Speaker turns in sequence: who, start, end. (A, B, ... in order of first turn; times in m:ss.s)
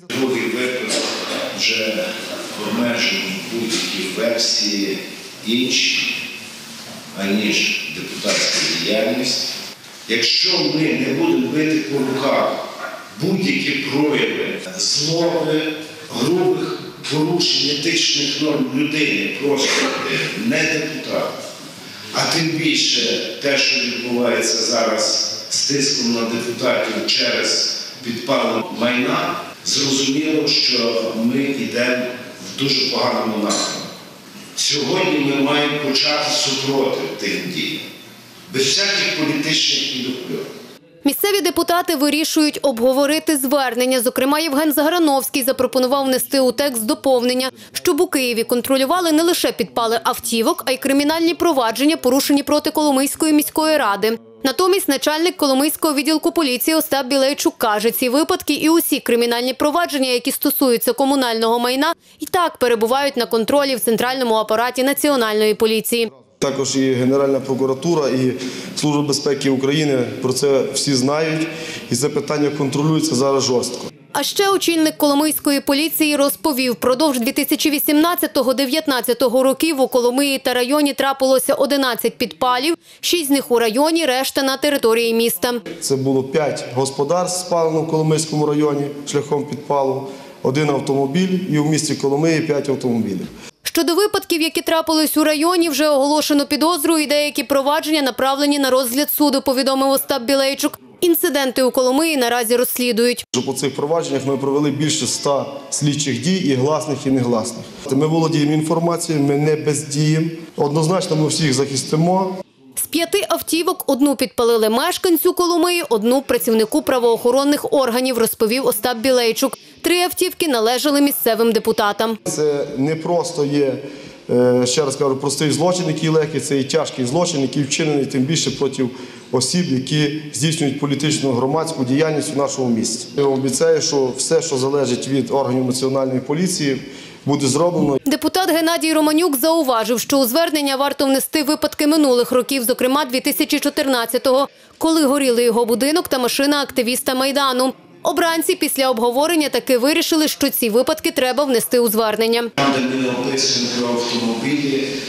0:00.1-0:06.1 A
0:07.1-0:09.5 A
0:10.1-0:12.6 A
0:13.2-0:21.3 A
0:22.1-0:33.9 A
0:34.6-0:37.8 A
0:38.5-0:40.5 A
0:41.0-1:06.1 B
1:06.4-1:13.9 C
1:14.1-1:25.6 B
1:25.8-1:33.3 C
1:33.6-1:43.2 B
1:43.3-1:52.3 C
1:52.8-2:02.2 B
2:02.3-2:18.0 C
2:18.0-2:32.5 B
2:32.6-2:34.9 A